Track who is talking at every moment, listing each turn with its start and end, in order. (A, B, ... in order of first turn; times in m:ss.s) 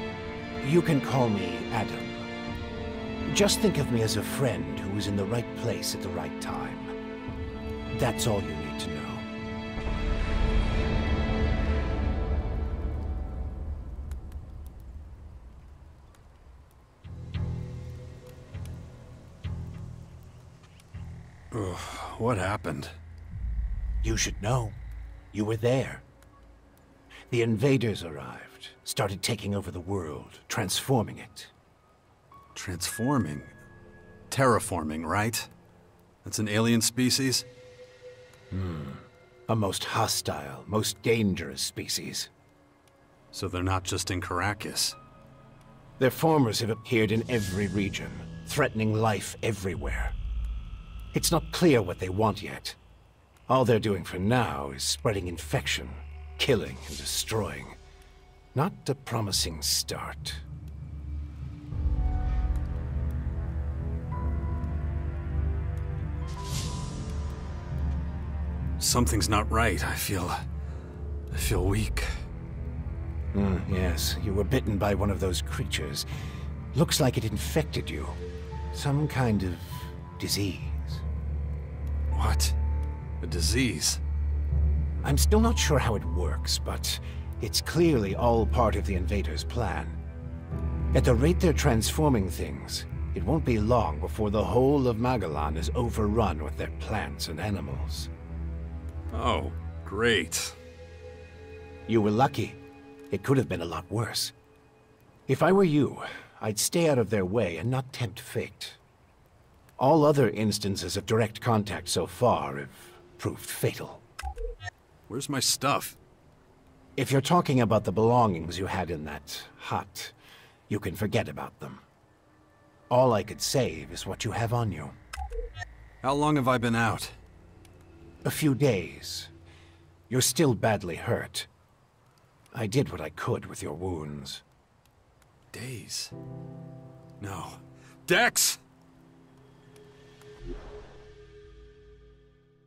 0:00.6-0:02.2 A
0:03.3-0:06.9 A
0:07.9-0:09.3 A
0:21.5-0:22.9 B
0:24.0-0:24.8 A
0:25.3-0:26.0 A
0:27.3-0:31.5 A
0:32.5-0:33.5 B
0:34.3-0:35.5 B
0:36.2-0:37.4 B
0:38.5-0:42.3 A
0:43.3-0:45.0 B
0:46.0-0:50.1 A
0:51.1-0:52.8 A
0:53.5-0:57.8 A
0:58.5-1:00.4 A
1:08.8-1:10.4 B
1:11.3-1:12.1 B
1:13.3-1:16.0 A
1:16.7-1:18.2 A
1:18.7-1:21.0 A
1:22.1-1:22.6 B
1:23.2-1:24.0 B
1:25.0-1:30.0 A
1:30.9-1:38.1 A
1:39.1-1:40.6 B
1:41.9-1:42.6 A
1:43.1-1:44.3 A
1:45.3-1:48.8 A
1:49.8-1:54.0 A
1:55.1-1:56.0 B
1:57.0-2:00.1 A
2:00.7-2:01.8 A
2:02.9-2:04.9 A
2:06.0-2:07.2 B
2:08.2-2:09.3 A
2:10.1-2:11.5 A
2:12.5-2:14.4 A
2:15.5-2:16.1 B
2:17.2-2:18.6 B